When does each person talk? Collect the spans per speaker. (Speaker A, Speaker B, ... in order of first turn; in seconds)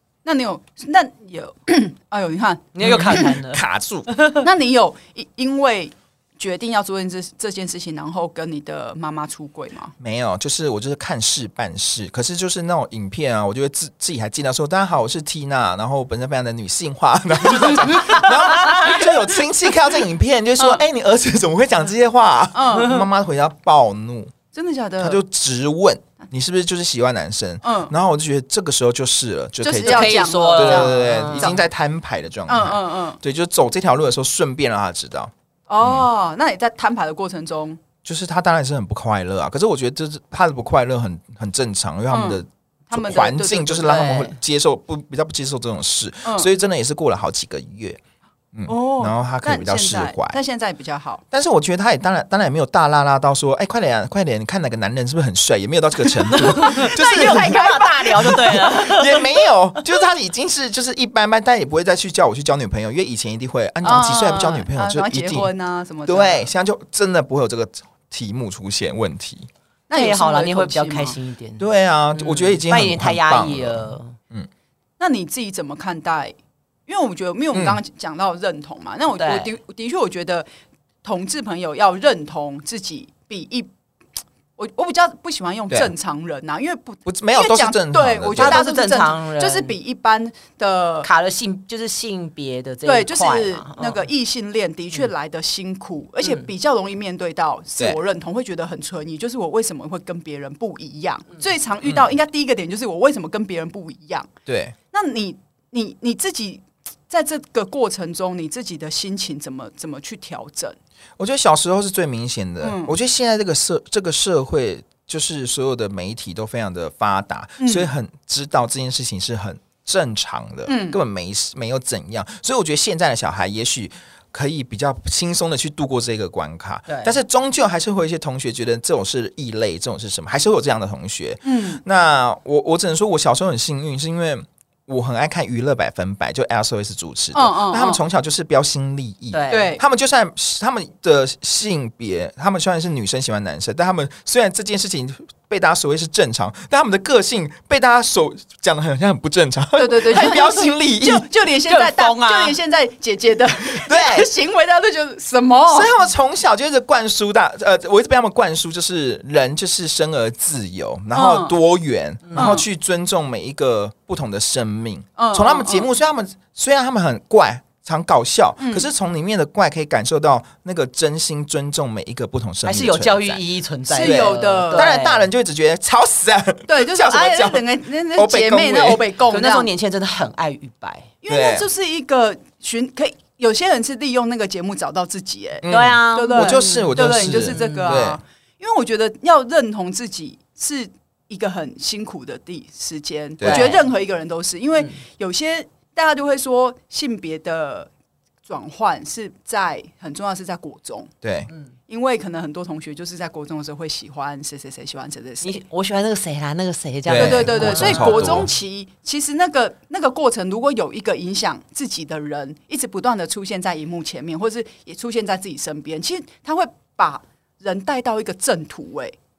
Speaker A: 0.2-3.3, 4.4-9.9, 22.5-23.0, 24.5-25.2, 27.6-27.9, 29.6-31.6, 32.5-33.2, 35.7-37.8, 42.1-44.2, 48.7-51.2, 56.4-58.9, 63.8-66.5, 69.9-71.2, 75.0-76.3, 76.9-80.5, 81.0-83.7, 84.6-91.1, 92.8-104.3, 104.9-110.8, 112.6-112.9, 117.6-117.9, 120.7-121.0, 131.4-131.8, 137.3-138.0, 139.5-139.8, 149.8-156.0, 161.1-161.6, 162.3-162.6, 165.2-165.9, 168.6-168.9, 173.9-174.9, 176.7-179.7, 181.2-197.9, 198.4-201.1, 201.9-205.6, 207.2-219.2
Speaker B: 2.7-4.5, 18.3-18.8, 22.8-23.1, 29.8-31.6, 43.8-44.4, 56.3-59.3, 69.9-74.2, 79.2-79.5, 88.4-89.8, 91.0-94.0, 126.9-127.2, 139.3-139.8, 151.7-152.6, 162.3-162.6, 172.7-175.2, 179.3-181.1, 185.7-188.0, 193.4-193.8, 205.4-208.4
Speaker C: 2.8-4.1, 10.0-24.3, 25.0-35.3, 38.0-48.0, 48.5-50.4, 51.3-65.5, 66.1-69.5, 71.6-74.5, 77.5-77.8, 87.1-88.6, 104.5-104.8, 111.2-151.3, 153.7-154.3, 155.7-173.4, 174.0-179.0, 181.3-181.7, 185.6-188.2, 193.4-193.8, 201.2-201.5, 207.1-208.5